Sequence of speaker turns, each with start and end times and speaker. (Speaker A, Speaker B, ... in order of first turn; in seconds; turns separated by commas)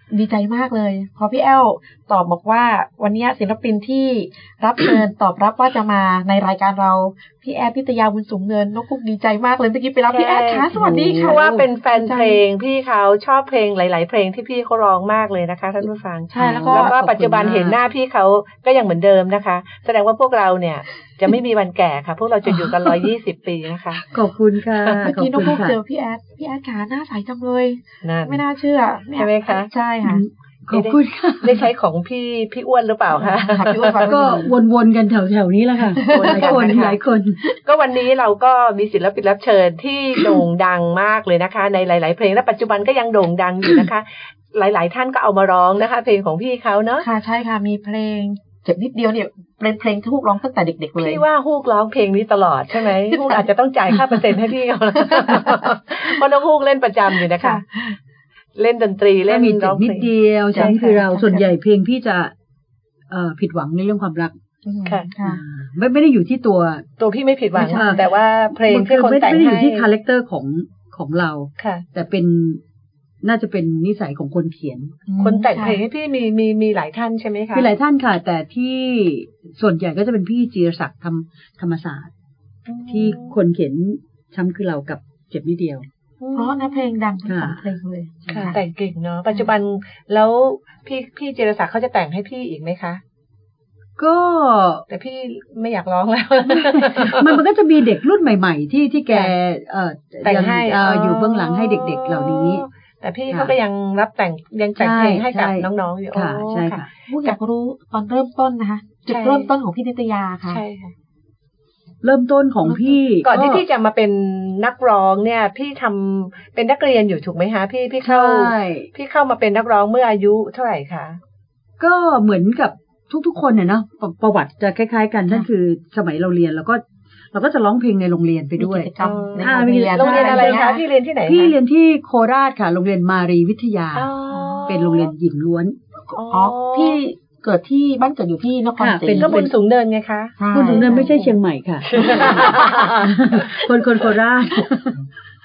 Speaker A: 0.1-12.4, Speaker B: 10.1-24.1, Speaker C: 10.7-11.7, Speaker A: 16.3-16.9, Speaker C: 16.3-17.8, Speaker C: 22.4-23.1, Speaker C: 24.0-25.8, Speaker A: 24.9-30.2, Speaker B: 28.0-28.4, Speaker B: 29.1-29.7, Speaker C: 30.0-31.7, Speaker B: 30.7-34.2, Speaker A: 33.1-34.5, Speaker C: 34.0-37.4, Speaker B: 36.0-47.1, Speaker A: 36.0-36.8, Speaker A: 47.0-51.2, Speaker B: 51.0-57.6, Speaker A: 53.1-53.4, Speaker A: 55.1-55.6, Speaker A: 57.3-58.0, Speaker B: 58.6-61.0, Speaker C: 59.3-62.3, Speaker A: 60.6-61.5, Speaker C: 63.1-64.3, Speaker A: 64.7-65.4, Speaker B: 64.8-65.1, Speaker C: 65.2-66.8, Speaker B: 67.0-69.9, Speaker C: 67.6-72.6, Speaker B: 71.6-71.8, Speaker C: 73.2-75.0, Speaker A: 75.1-75.8, Speaker B: 75.2-77.7, Speaker C: 77.5-82.1, Speaker B: 82.7-83.3, Speaker C: 82.9-85.8, Speaker B: 86.2-86.8, Speaker A: 86.3-88.5, Speaker C: 87.2-87.6, Speaker C: 88.2-88.6, Speaker B: 88.3-93.0, Speaker C: 94.0-94.8, Speaker B: 94.9-97.4, Speaker C: 96.5-102.6, Speaker B: 100.2-107.3, Speaker C: 104.8-106.9, Speaker A: 107.1-110.6, Speaker B: 109.1-109.5, Speaker B: 110.5-110.9, Speaker C: 112.0-113.6, Speaker B: 113.2-121.2, Speaker C: 118.0-118.9, Speaker C: 121.8-130.7, Speaker A: 128.6-130.8, Speaker B: 129.0-131.6, Speaker C: 131.2-134.1, Speaker B: 133.9-135.1, Speaker A: 134.3-134.7, Speaker C: 134.7-135.8, Speaker A: 136.1-139.3, Speaker B: 136.1-137.0, Speaker C: 138.8-139.5, Speaker B: 139.2-141.3, Speaker A: 140.4-141.1, Speaker C: 140.5-145.0, Speaker B: 141.9-143.1